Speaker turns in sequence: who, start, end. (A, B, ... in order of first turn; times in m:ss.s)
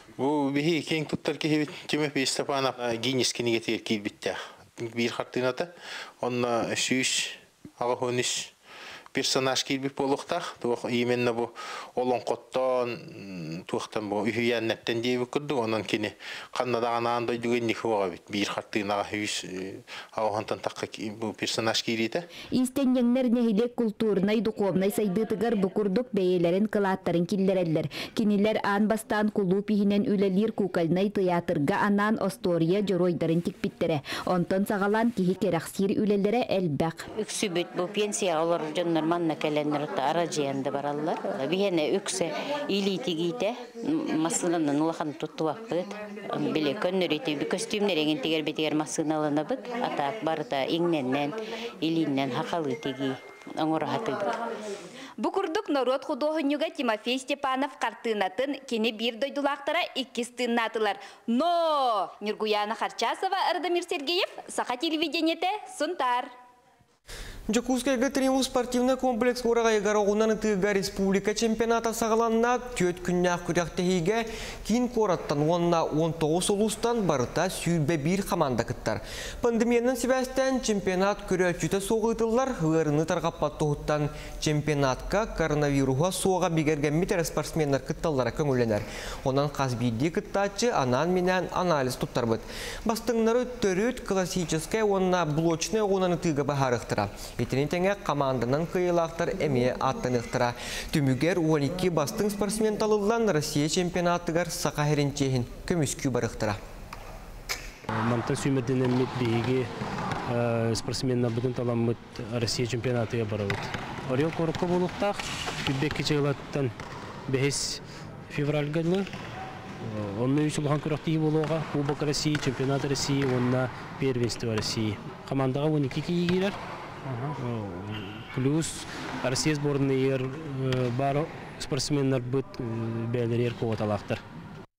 0:00.2-0:05.7 A
0:06.2-0:08.5 A
0:09.1-0:22.2 A
0:22.5-0:37.0 B
0:37.2-0:54.4 C
0:55.2-1:06.3 B
1:07.5-1:46.6 D
1:47.9-1:49.7 E
1:50.3-1:56.7 E
1:57.3-1:59.1 E
1:59.9-2:14.2 E